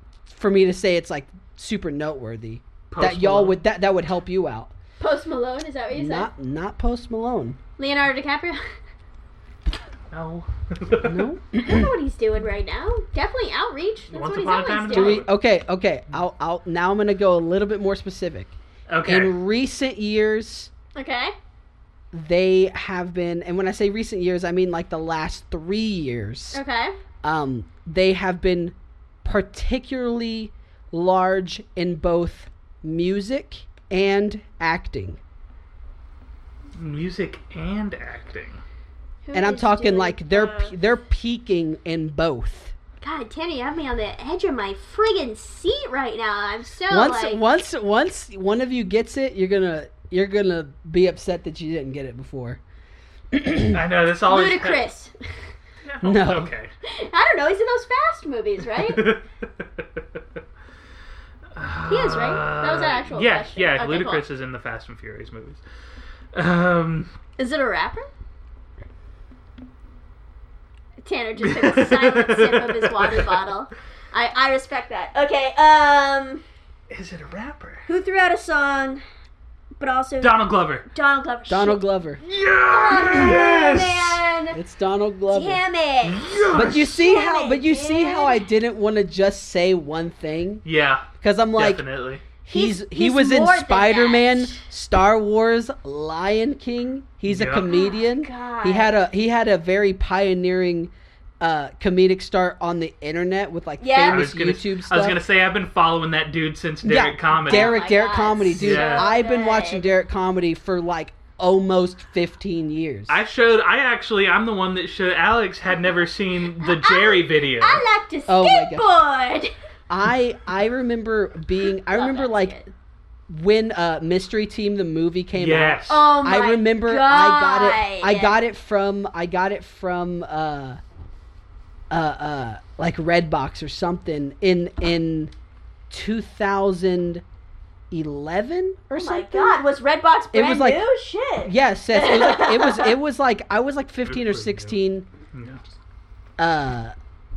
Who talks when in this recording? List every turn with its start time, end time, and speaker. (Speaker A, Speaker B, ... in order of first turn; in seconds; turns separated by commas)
Speaker A: 0.3-4.7, Speaker B: 2.9-3.6, Speaker C: 5.0-6.3, Speaker A: 5.9-7.6, Speaker C: 7.8-8.6, Speaker B: 10.1-11.3, Speaker A: 11.0-11.9, Speaker C: 11.6-15.2, Speaker B: 14.1-15.3, Speaker A: 14.9-18.5, Speaker B: 18.9-19.3, Speaker A: 19.1-20.7, Speaker C: 21.0-21.3, Speaker A: 22.1-26.6, Speaker C: 26.5-26.9, Speaker A: 27.2-35.2, Speaker B: 36.8-38.6, Speaker C: 39.2-40.7, Speaker A: 39.3-42.8, Speaker C: 43.0-47.4, Speaker A: 46.9-52.6, Speaker A: 53.3-53.8, Speaker B: 53.7-54.9, Speaker C: 54.3-55.2, Speaker B: 55.8-56.7, Speaker A: 56.0-56.5, Speaker C: 56.8-59.1, Speaker B: 58.8-59.8, Speaker B: 61.5-65.6, Speaker C: 61.9-64.2, Speaker B: 66.3-67.1, Speaker C: 67.4-68.1, Speaker C: 71.0-76.4, Speaker B: 71.4-73.3, Speaker B: 76.9-77.8, Speaker C: 77.9-79.0, Speaker C: 79.8-81.8, Speaker B: 80.2-80.9, Speaker A: 81.5-82.2, Speaker B: 82.2-84.2, Speaker C: 82.7-84.6, Speaker A: 84.5-85.6, Speaker C: 85.3-88.5, Speaker B: 86.0-87.0, Speaker A: 86.5-90.7, Speaker B: 90.7-92.2, Speaker A: 91.2-91.8, Speaker A: 92.4-105.2, Speaker C: 92.5-94.6, Speaker B: 97.3-97.7, Speaker C: 97.7-98.9, Speaker C: 103.8-104.3, Speaker B: 104.1-107.8, Speaker A: 106.8-113.2, Speaker C: 107.5-109.8, Speaker B: 108.6-109.1, Speaker B: 113.1-117.8, Speaker C: 116.6-119.5, Speaker A: 118.3-118.9, Speaker A: 119.9-122.7, Speaker C: 121.9-122.7, Speaker A: 123.3-130.8, Speaker B: 125.3-126.1, Speaker C: 125.9-128.4, Speaker A: 131.9-135.3, Speaker A: 135.9-137.2, Speaker A: 137.9-139.7, Speaker C: 139.0-142.9, Speaker A: 140.3-140.8, Speaker A: 141.4-145.1, Speaker B: 144.1-144.8, Speaker B: 145.3-145.6, Speaker A: 146.4-146.9